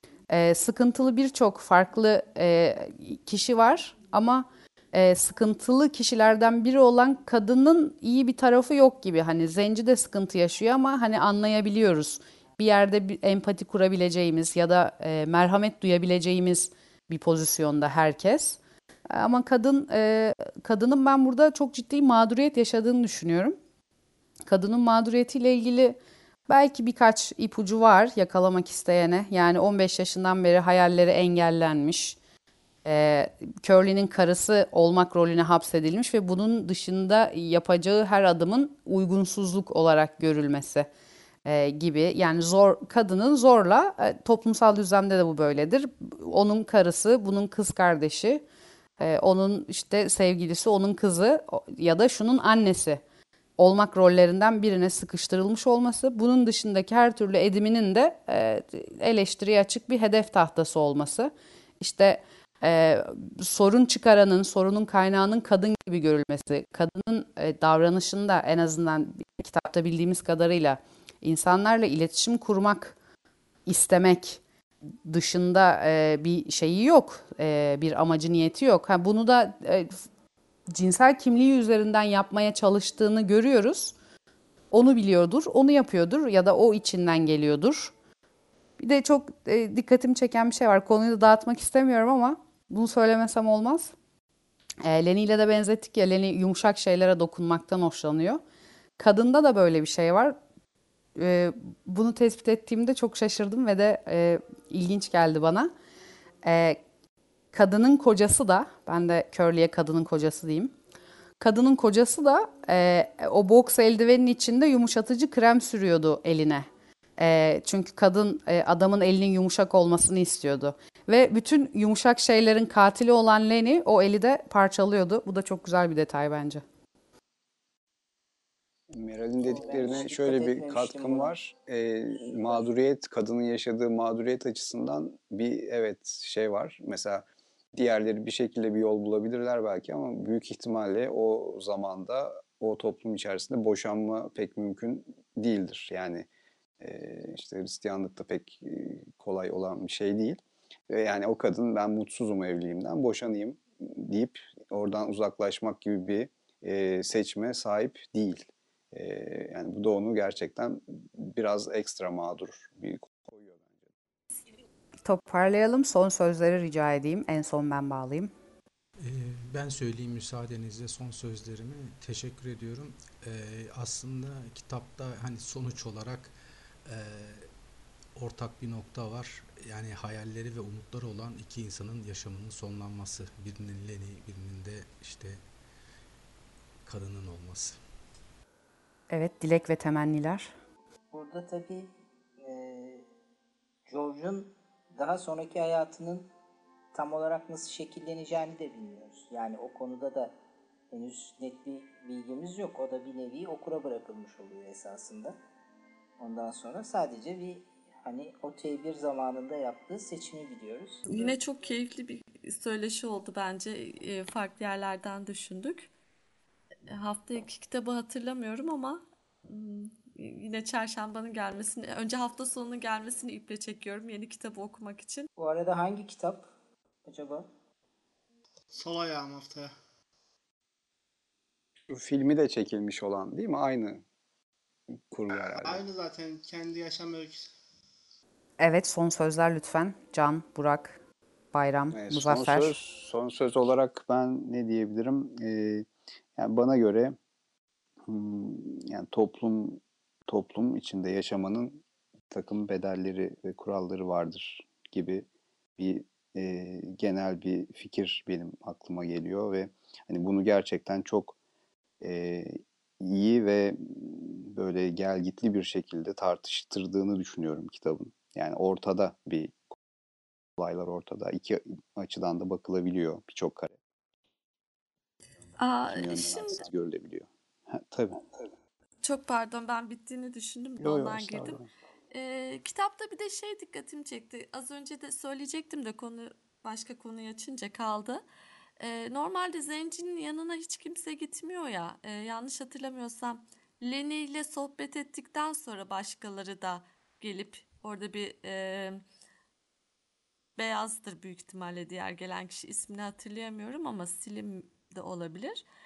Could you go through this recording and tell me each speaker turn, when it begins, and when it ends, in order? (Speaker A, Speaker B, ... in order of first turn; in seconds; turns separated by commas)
Speaker A: 0.3-18.6, Speaker A: 19.1-23.6, Speaker A: 24.4-32.2, Speaker A: 32.8-40.9, Speaker A: 41.4-48.4, Speaker A: 49.0-53.0, Speaker A: 53.6-73.0, Speaker A: 73.7-74.4, Speaker A: 75.0-80.0, Speaker A: 80.7-83.9, Speaker A: 84.7-87.9, Speaker A: 88.8-93.9, Speaker A: 94.8-98.4, Speaker A: 99.0-100.4, Speaker A: 101.2-105.7, Speaker A: 106.4-106.8, Speaker A: 107.5-110.7, Speaker A: 111.4-116.7, Speaker A: 117.2-126.6, Speaker B: 128.9-146.3, Speaker C: 129.4-131.4, Speaker C: 132.2-132.6, Speaker B: 146.8-150.4, Speaker B: 150.9-163.9, Speaker A: 165.0-168.3, Speaker D: 169.0-177.5, Speaker D: 178.1-185.4, Speaker D: 186.8-187.8, Speaker A: 189.1-190.5, Speaker C: 191.1-193.1, Speaker C: 193.9-196.3, Speaker C: 196.9-200.3, Speaker C: 200.9-205.4, Speaker C: 206.2-211.3, Speaker E: 211.1-215.9, Speaker E: 216.9-225.3, Speaker C: 225.4-226.5, Speaker C: 227.1-227.5, Speaker F: 228.7-229.7, Speaker B: 231.9-234.0, Speaker B: 234.9-235.8, Speaker F: 235.4-237.5, Speaker A: 238.6-241.0, Speaker A: 241.5-242.8, Speaker B: 241.9-247.2, Speaker B: 248.1-255.2, Speaker B: 255.8-261.3, Speaker B: 262.0-269.6, Speaker B: 270.6-273.8, Speaker E: 275.6-276.6, Speaker B: 275.9-278.5, Speaker E: 279.0-288.2, Speaker B: 280.8-281.7, Speaker E: 288.8-299.0, Speaker E: 300.6-305.6